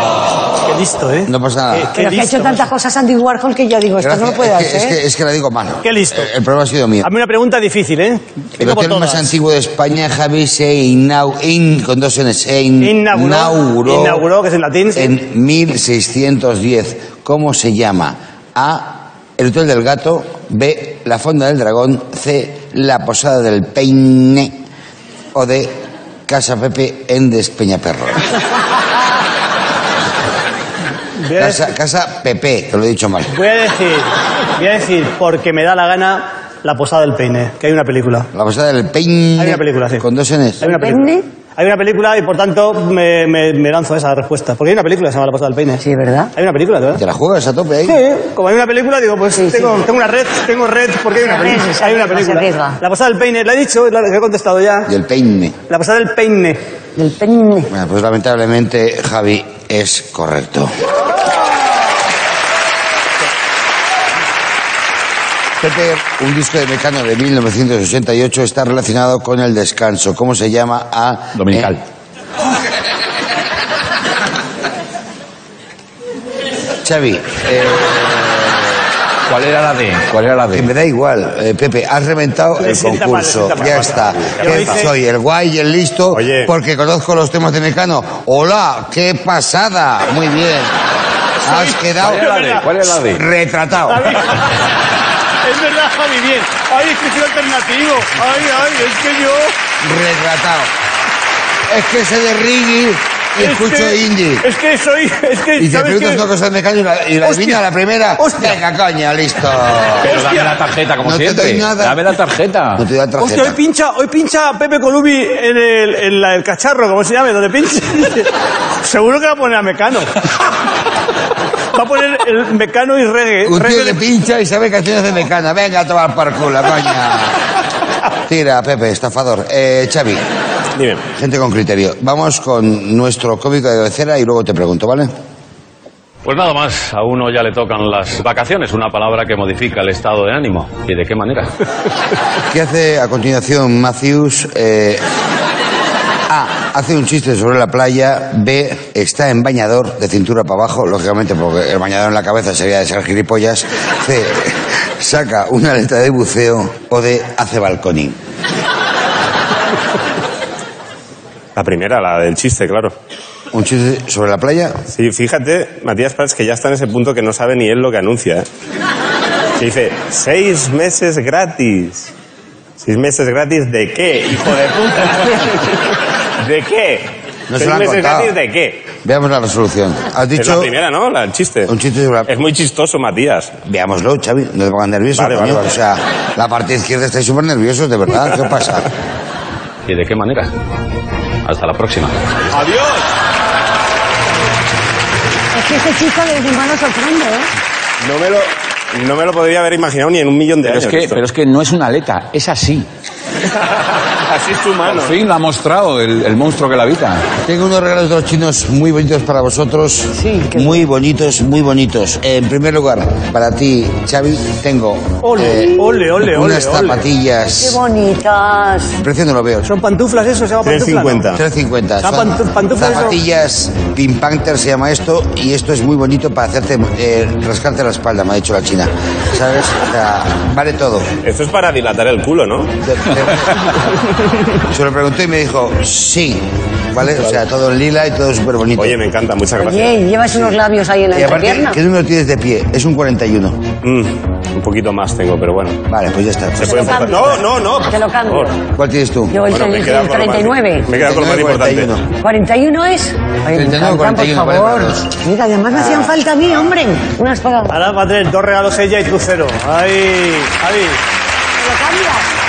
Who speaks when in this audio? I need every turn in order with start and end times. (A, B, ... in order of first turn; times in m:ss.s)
0:00.6-0:02.7 A
0:01.3-0:01.9 B
0:01.9-0:05.0 C
0:04.0-0:07.1 B
0:05.8-0:06.3 A
0:07.0-0:09.3 A
0:08.6-0:14.2 B
0:12.8-0:15.1 A
0:14.9-0:24.6 B
0:25.3-0:28.3 B
0:31.2-0:31.6 A
0:31.4-0:33.3 B
0:33.3-0:38.3 A
0:38.3-0:40.6 B
0:39.4-0:40.0 A
0:40.6-0:45.8 A
0:40.6-0:41.2 C
0:45.8-0:46.3 C
0:46.3-0:47.0 A
0:46.9-0:48.0 B
0:47.8-0:54.9 A
0:49.3-0:49.7 C
0:51.2-0:52.8 C
0:54.9-0:55.6 B
0:55.7-0:56.6 A
0:57.0-0:57.7 C
0:57.7-1:00.8 B
1:05.6-1:11.7 B
1:11.3-1:11.8 D
1:16.8-1:18.4 B
1:19.3-1:20.7 D
1:20.5-1:30.7 B
1:22.6-1:24.9 A
1:24.2-1:24.8 E
1:26.1-1:26.5 E
1:31.4-1:32.7 A
1:31.4-1:32.3 B
1:32.0-1:33.2 D
1:33.1-1:34.2 B
1:33.9-1:34.7 A
1:35.4-1:39.5 A
1:39.8-1:40.7 B
1:41.7-1:44.4 B
1:43.4-1:46.2 A
1:45.6-1:50.2 B
1:47.2-1:47.6 A
1:48.2-1:48.6 A
1:50.0-1:52.8 D
1:50.0-1:50.6 A
1:51.0-1:52.1 B
1:52.8-1:53.6 B
1:53.2-2:00.2 A
2:01.7-2:04.0 A
2:03.4-2:07.4 B
2:08.2-2:10.2 B
2:10.8-2:11.0 E
2:11.2-2:15.1 B
2:16.2-2:21.5 F
2:22.5-2:25.0 B
2:26.3-2:38.2 B
2:41.6-2:42.9 E
2:43.5-2:44.8 B
2:44.9-2:48.5 E
2:49.6-2:52.1 E
2:52.8-2:55.9 E
2:56.4-2:58.9 E
2:57.5-2:58.3 B
2:59.0-3:00.7 B
3:00.4-3:01.7 E
3:01.7-3:02.3 B
3:02.3-3:03.6 E
3:03.6-3:08.9 B
3:05.2-3:05.6 E
3:09.8-3:10.5 F
3:11.4-3:12.5 F
3:12.5-3:13.1 E
3:15.5-3:17.5 C
3:18.0-3:21.2 E
3:20.6-3:22.9 D
3:24.1-3:25.2 E
3:24.9-3:27.3 D
3:27.4-3:37.8 B
3:30.1-3:30.8 C
3:35.2-3:37.0 A
3:37.6-3:39.0 C
3:39.0-3:39.7 B
3:39.6-3:41.3 A
3:40.6-3:41.4 E
3:41.3-3:51.1 B
3:42.0-3:43.2 A
3:51.2-3:52.7 E
3:52.8-3:53.8 B
3:54.6-3:59.0 B
3:58.8-4:00.4 E
3:59.6-4:01.8 C
4:01.1-4:03.6 B
4:03.8-4:05.8 E
4:05.9-4:07.2 B
4:06.6-4:08.5 E
4:06.6-4:08.6 C
4:08.8-4:09.4 B
4:09.3-4:10.9 C
4:09.5-4:11.9 E
4:10.9-4:12.1 B
4:12.2-4:17.8 C
4:13.5-4:15.1 B
4:17.7-4:21.0 A
4:21.6-4:22.3 C